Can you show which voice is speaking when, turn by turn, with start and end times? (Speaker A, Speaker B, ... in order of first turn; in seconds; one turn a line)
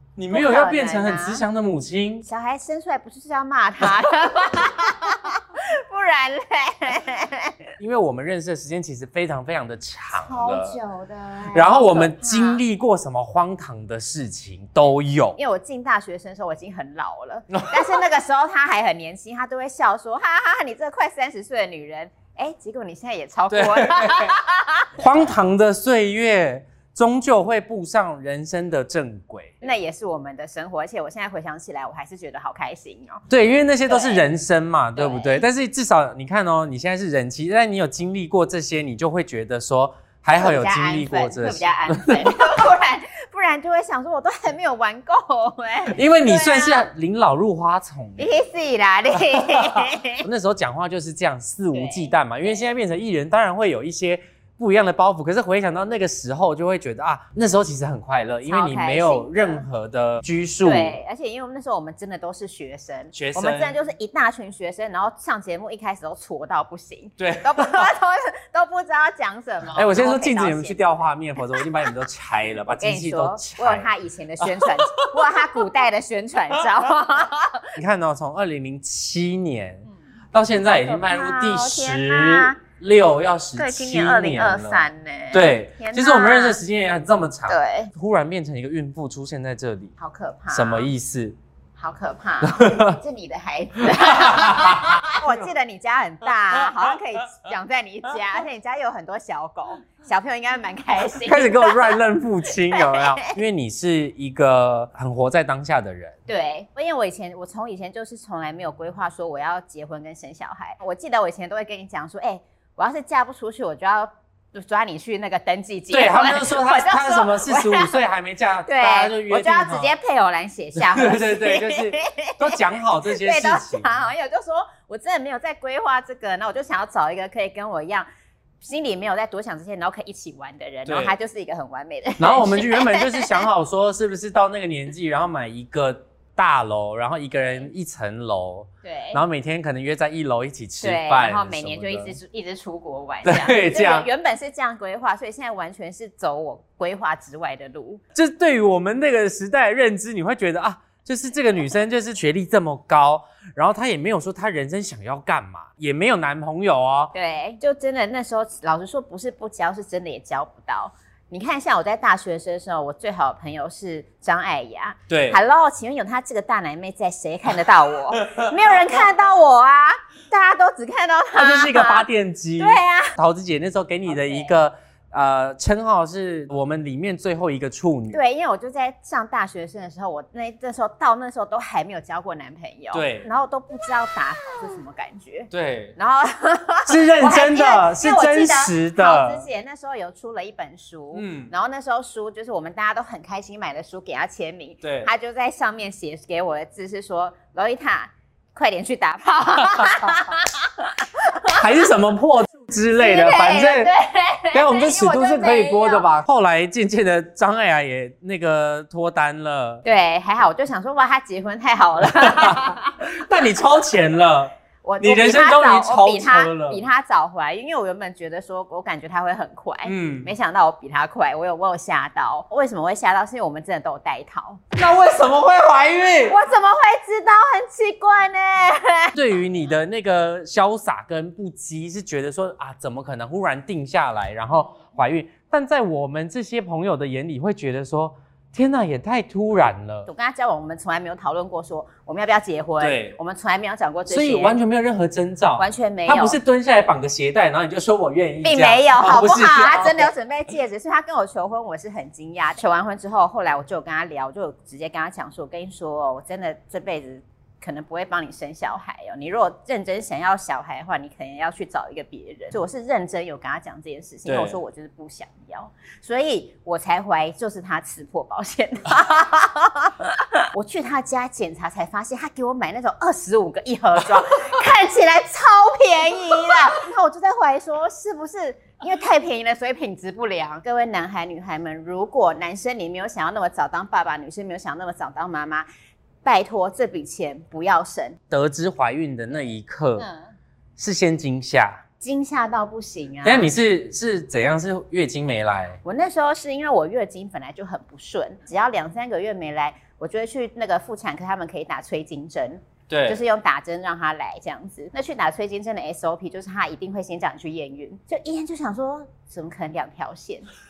Speaker A: 0.2-2.2
Speaker B: 0.3-1.4
Speaker B: 2.2-7.7
Speaker A: 7.8-10.8
Speaker B: 10.1-12.6
Speaker A: 11.5-15.4
Speaker B: 15.4-24.9
Speaker A: 17.5-18.0
Speaker A: 23.5-24.3
Speaker A: 25.0-29.6
Speaker B: 29.6-33.2
Speaker A: 33.3-42.2
Speaker B: 33.9-34.3
Speaker B: 35.0-35.4
Speaker B: 40.3-46.9
Speaker A: 45.9-48.4
Speaker B: 48.2-50.2
Speaker A: 49.8-61.0
Speaker B: 51.7-52.6
Speaker B: 58.4-59.6
Speaker B: 60.6-70.9
Speaker A: 63.1-63.8
Speaker A: 67.2-67.9
Speaker A: 69.8-75.4
Speaker B: 71.4-71.7
Speaker B: 72.8-77.7
Speaker A: 77.8-89.9
Speaker B: 80.6-82.6
Speaker B: 83.6-86.6
Speaker B: 87.5-87.9
Speaker B: 90.0-90.9
Speaker A: 90.5-91.4
Speaker B: 91.8-102.0
Speaker A: 92.4-93.0
Speaker A: 93.8-95.5
Speaker A: 101.2-106.2
Speaker B: 102.7-103.4
Speaker B: 106.3-118.0
Speaker A: 115.9-119.9
Speaker B: 118.7-128.1
Speaker A: 120.8-123.9
Speaker B: 128.6-133.4
Speaker A: 130.8-131.2
Speaker A: 132.2-142.2
Speaker B: 138.8-139.2
Speaker B: 140.8-148.0
Speaker A: 143.2-144.1
Speaker A: 148.2-157.1
Speaker B: 157.1-172.1
Speaker A: 165.1-165.4
Speaker A: 171.3-178.2
Speaker B: 172.6-173.2
Speaker B: 174.1-174.5
Speaker B: 178.1-201.6
Speaker A: 182.9-183.3
Speaker A: 185.5-185.9
Speaker A: 186.8-189.4
Speaker A: 191.1-191.5
Speaker A: 194.8-195.1
Speaker A: 199.7-200.0
Speaker A: 201.5-203.9
Speaker B: 203.0-206.1
Speaker A: 204.5-209.8
Speaker B: 209.8-213.0
Speaker A: 212.0-216.8
Speaker B: 214.8-224.6
Speaker A: 219.8-220.3
Speaker A: 224.8-226.4
Speaker B: 226.2-229.2
Speaker A: 229.1-240.1
Speaker B: 240.1-244.6
Speaker A: 242.8-243.2
Speaker A: 244.1-250.1
Speaker B: 245.6-246.4
Speaker B: 248.4-285.6
Speaker A: 264.2-264.6
Speaker B: 286.2-288.2
Speaker A: 288.3-290.1
Speaker B: 290.0-290.4
Speaker A: 290.8-291.8
Speaker B: 292.0-293.5
Speaker A: 293.2-295.8
Speaker B: 295.8-310.5
Speaker A: 302.9-303.2